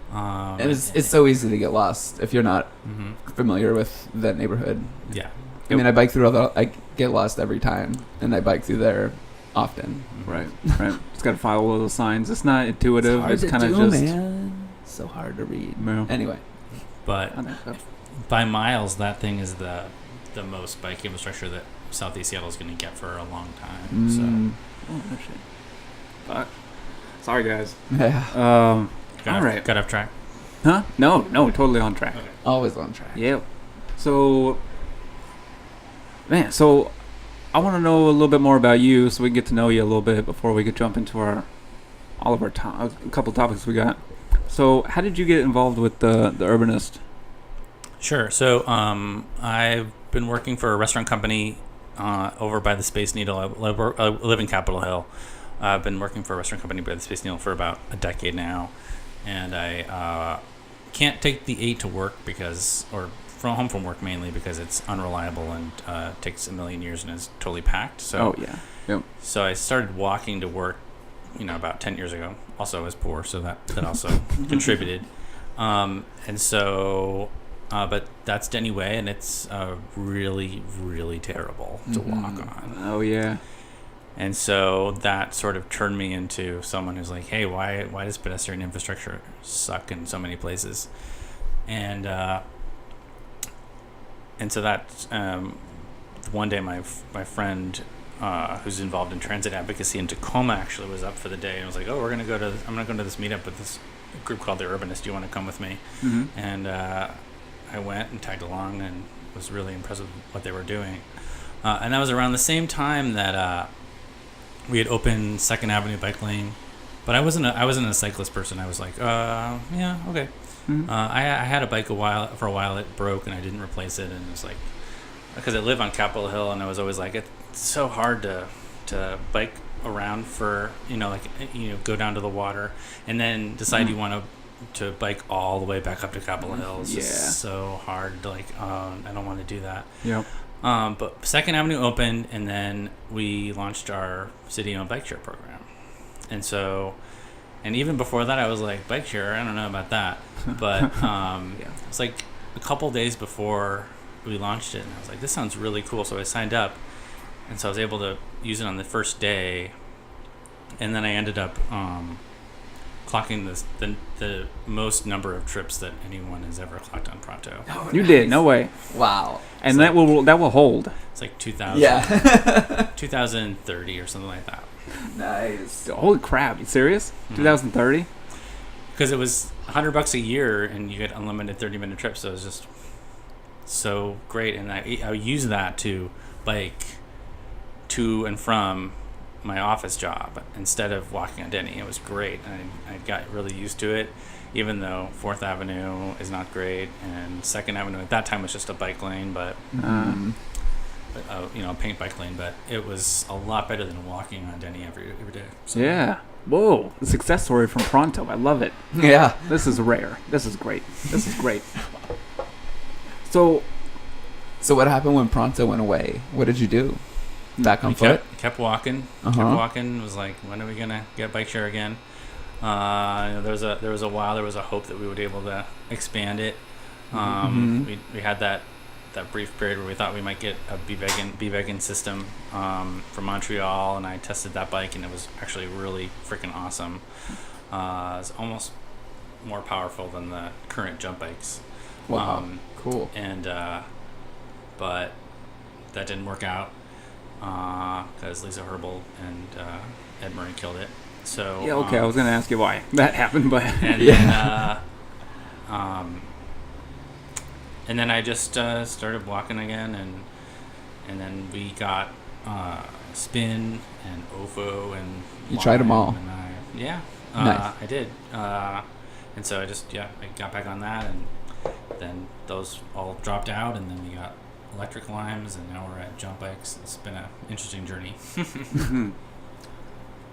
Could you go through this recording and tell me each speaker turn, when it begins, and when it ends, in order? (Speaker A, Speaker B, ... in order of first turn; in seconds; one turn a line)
Speaker A: 0.1-1.1
Speaker B: 0.6-2.7
Speaker A: 2.9-3.2
Speaker B: 3.3-5.1
Speaker C: 5.7-5.9
Speaker B: 5.7-10.8
Speaker A: 10.1-10.4
Speaker C: 10.2-14.1
Speaker B: 13.0-16.4
Speaker C: 15.8-16.1
Speaker A: 17.0-17.4
Speaker C: 17.3-17.8
Speaker A: 18.3-24.4
Speaker B: 23.9-24.6
Speaker C: 24.9-25.4
Speaker C: 27.2-27.8
Speaker B: 27.9-28.3
Speaker C: 28.3-29.8
Speaker A: 29.2-30.1
Speaker C: 30.6-32.2
Speaker B: 32.4-33.2
Speaker C: 33.1-33.4
Speaker C: 34.0-34.6
Speaker C: 36.3-36.9
Speaker C: 37.5-41.5
Speaker C: 42.2-47.0
Speaker A: 48.0-58.7
Speaker A: 59.2-68.4
Speaker C: 68.2-69.0
Speaker A: 69.2-70.8
Speaker A: 71.4-82.8
Speaker B: 81.9-82.5
Speaker C: 82.7-83.4
Speaker A: 84.2-90.9
Speaker A: 91.7-92.4
Speaker A: 94.4-95.7
Speaker A: 96.2-111.1
Speaker C: 106.0-106.3
Speaker A: 111.6-113.7
Speaker A: 114.7-120.3
Speaker A: 120.8-124.6
Speaker A: 125.3-140.0
Speaker C: 136.8-137.4
Speaker A: 140.6-145.7
Speaker A: 146.3-147.0
Speaker A: 147.6-156.8
Speaker A: 157.5-159.7
Speaker A: 160.8-162.2
Speaker A: 163.1-167.7
Speaker B: 167.7-169.4
Speaker C: 167.9-168.7
Speaker C: 169.6-170.9
Speaker A: 169.7-170.1
Speaker A: 171.1-174.7
Speaker B: 171.7-172.9
Speaker B: 175.0-175.9
Speaker C: 175.8-178.1
Speaker A: 177.3-177.6
Speaker A: 178.9-182.7
Speaker A: 183.7-187.0
Speaker A: 187.9-199.6
Speaker B: 199.7-200.4
Speaker C: 199.8-200.2
Speaker A: 201.1-206.1
Speaker C: 205.8-208.8
Speaker B: 208.9-209.6
Speaker C: 209.3-211.8
Speaker C: 213.3-213.7
Speaker B: 214.6-217.0
Speaker B: 217.6-218.2
Speaker A: 217.8-222.0
Speaker B: 219.2-219.6
Speaker A: 222.6-237.0
Speaker C: 227.5-227.8
Speaker A: 237.7-238.7
Speaker A: 239.4-241.6
Speaker B: 242.1-243.1
Speaker A: 242.1-243.9
Speaker A: 244.8-245.2
Speaker A: 245.9-246.7
Speaker A: 247.4-252.1
Speaker C: 251.6-254.1
Speaker A: 253.8-254.8
Speaker B: 254.0-254.7
Speaker A: 255.7-256.3
Speaker A: 257.9-260.3
Speaker A: 261.0-268.8
Speaker B: 265.5-266.2
Speaker B: 267.4-267.7
Speaker A: 269.4-271.3
Speaker A: 272.0-278.8
Speaker C: 278.7-279.1